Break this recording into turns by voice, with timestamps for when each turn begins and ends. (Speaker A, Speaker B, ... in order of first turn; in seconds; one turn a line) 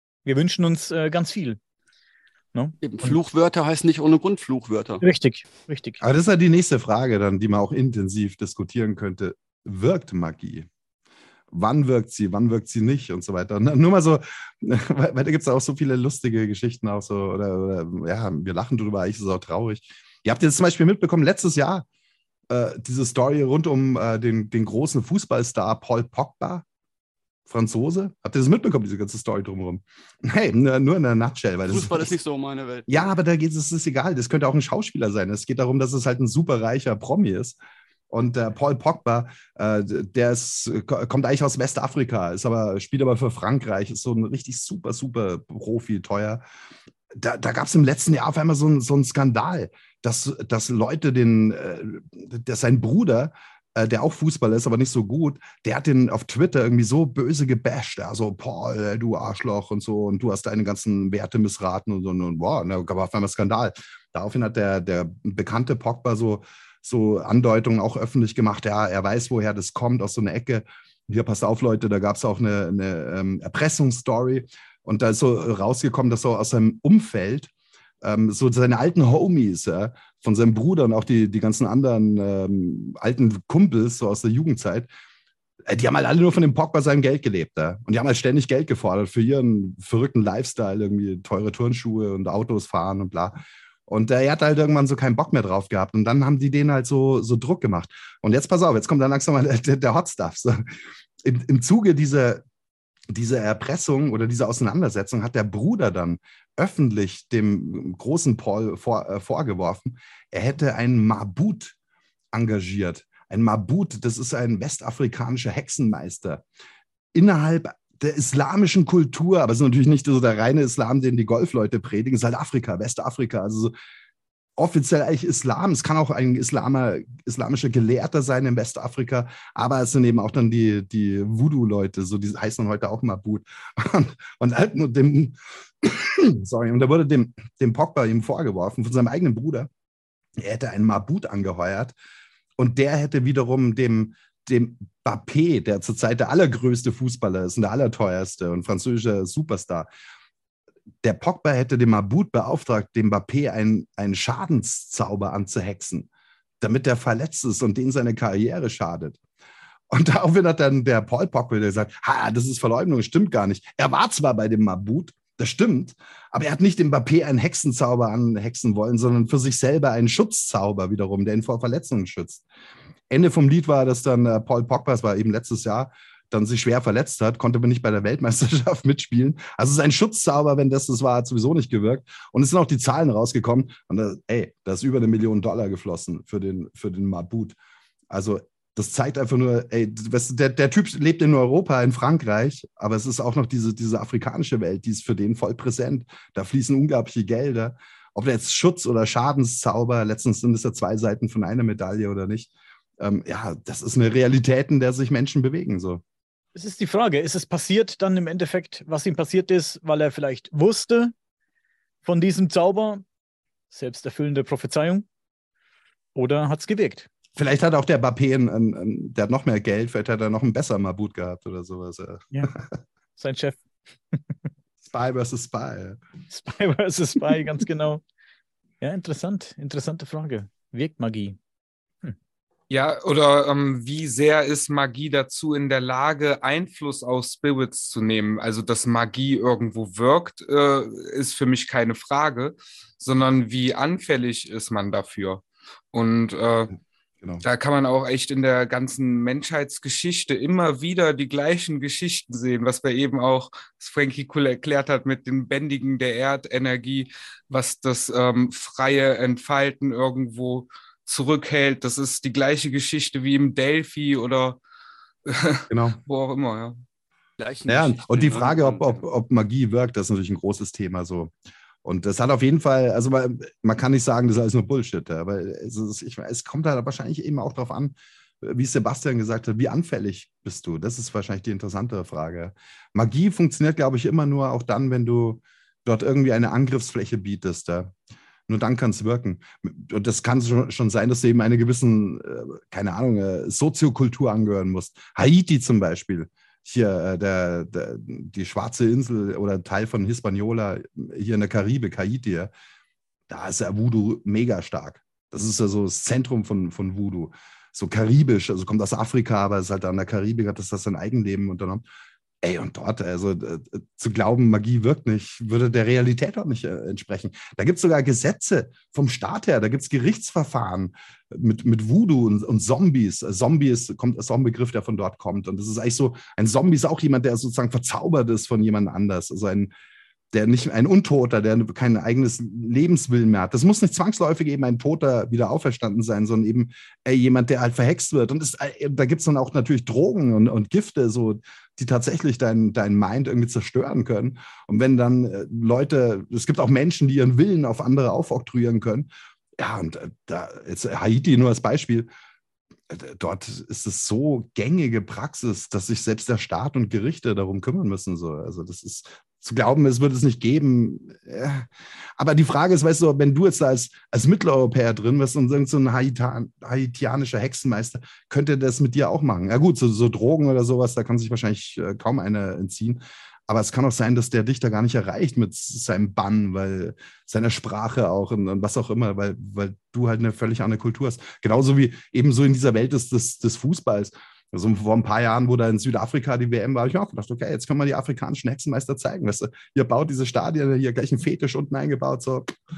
Speaker A: 0.2-1.6
Speaker A: 2.5-3.2
Speaker B: 2.8-5.0
Speaker A: 5.0-6.0
Speaker C: 6.0-10.7
Speaker C: 11.5-21.9
Speaker C: 22.5-26.6
Speaker C: 27.5-32.1
Speaker B: 31.7-33.1
Speaker C: 32.9-37.6
Speaker C: 38.1-46.4
Speaker C: 47.1-84.9
Speaker C: 85.7-102.4
Speaker C: 103.1-111.8
Speaker C: 112.3-116.4
Speaker C: 117.1-123.7
Speaker C: 124.6-139.7
Speaker C: 140.4-141.9
Speaker C: 142.6-149.9
Speaker C: 151.0-156.1
Speaker C: 156.6-159.2
Speaker C: 159.9-172.4
Speaker C: 173.1-187.6
Speaker C: 188.1-206.0
Speaker A: 206.6-211.1
Speaker A: 212.0-213.0
Speaker A: 213.7-215.1
Speaker A: 216.2-217.1
Speaker C: 217.4-222.7
Speaker A: 223.2-223.6
Speaker C: 224.8-226.0
Speaker A: 226.3-228.0
Speaker A: 228.8-231.4
Speaker D: 232.7-246.8
Speaker D: 247.4-264.6
Speaker D: 265.3-266.8
Speaker C: 265.7-266.0
Speaker B: 267.4-269.0
Speaker C: 267.7-271.3
Speaker C: 271.8-287.9
Speaker C: 288.5-302.5
Speaker C: 303.3-311.8
Speaker C: 312.4-329.7
Speaker C: 330.3-352.1
Speaker C: 352.9-361.7
Speaker C: 362.2-392.6